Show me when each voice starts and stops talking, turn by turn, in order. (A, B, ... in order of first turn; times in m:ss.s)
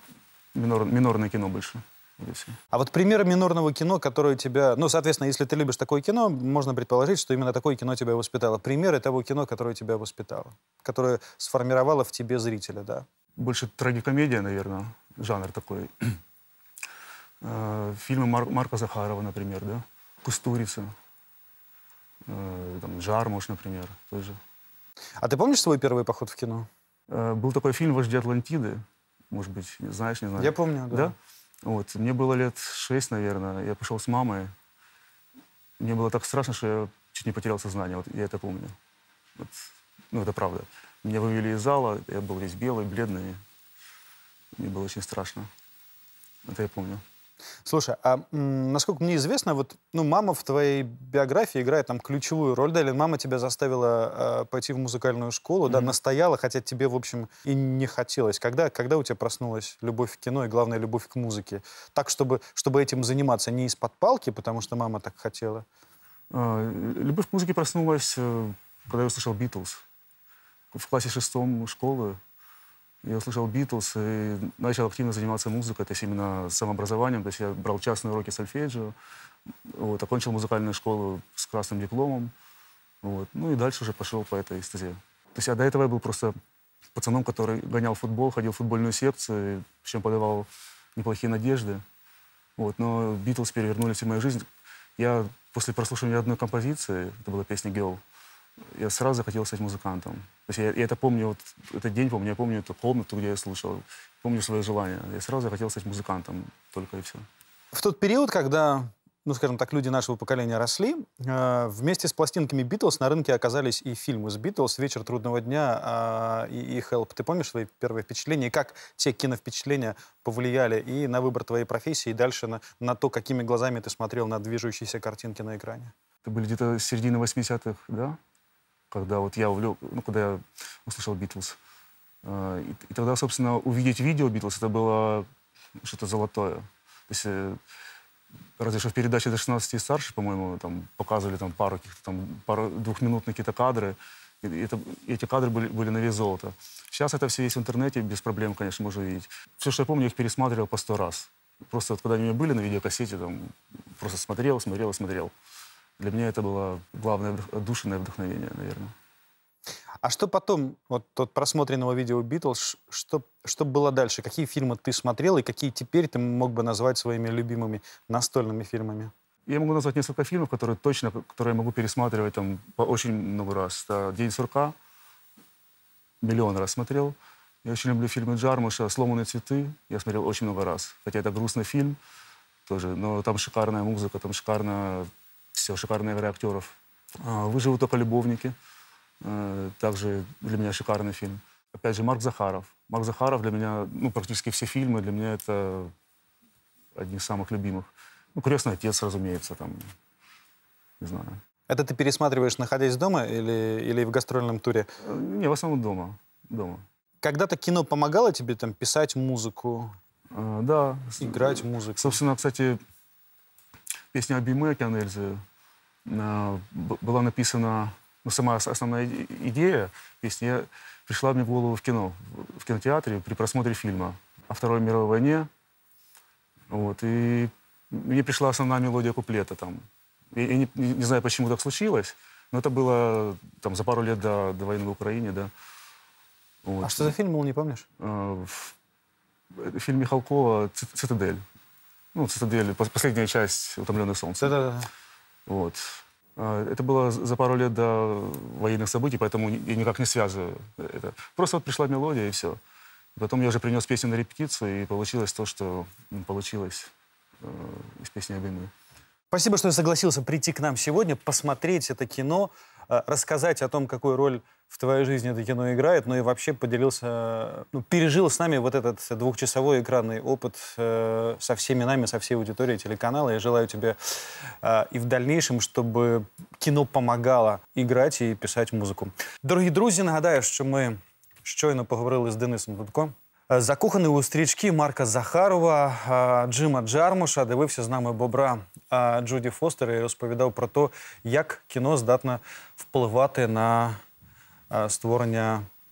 0:00.5-0:02.5 A
0:02.7-0:13.0 B
0:13.4-0:16.2 A
0:17.4-0:20.9 A
0:22.3-0:24.4 A
0:25.2-0:26.7 B
0:27.1-0:34.5 A
0:30.4-0:31.1 B
0:35.8-0:38.8 A
0:39.4-0:43.4 A
0:44.6-0:45.5 A
0:46.4-0:47.0 A
0:47.6-1:05.6 B
1:06.3-1:09.8 A
1:10.7-1:12.2 A
1:13.0-1:18.9 A
1:19.7-1:22.3 A
1:23.0-1:26.3 A
1:26.9-1:31.8 A
1:32.6-1:34.4 A
1:35.0-1:38.0 A
1:38.7-1:47.2 A
1:47.7-2:05.9 B
2:06.2-2:08.2 A
2:08.9-2:11.6 A
2:12.2-2:15.3 A
2:15.8-2:17.6 A
2:18.6-2:35.3 A
2:36.0-2:38.9 A
2:40.0-2:49.1 B
2:49.5-2:54.7 A
2:56.2-3:02.0 A
3:02.7-3:08.5 A
3:09.2-3:15.9 A
3:16.9-3:19.8 A
3:21.0-3:21.4 A
3:21.7-3:24.9 B
3:25.0-3:26.8 A
3:27.2-3:29.9 B
3:30.3-3:32.8 A
3:31.2-3:32.2 B
3:34.1-3:35.4 A
3:36.0-3:45.5 A
3:46.7-3:55.5 A
3:56.6-3:57.1 A
3:56.8-3:57.8 B
3:58.0-3:58.7 A
3:59.5-4:01.4 A
4:02.1-4:04.6 A
4:04.4-4:04.9 B
4:05.4-4:12.6 A
4:13.2-4:18.7 A
4:19.3-4:34.0 B
4:34.6-4:54.0 B
4:54.7-4:55.6 B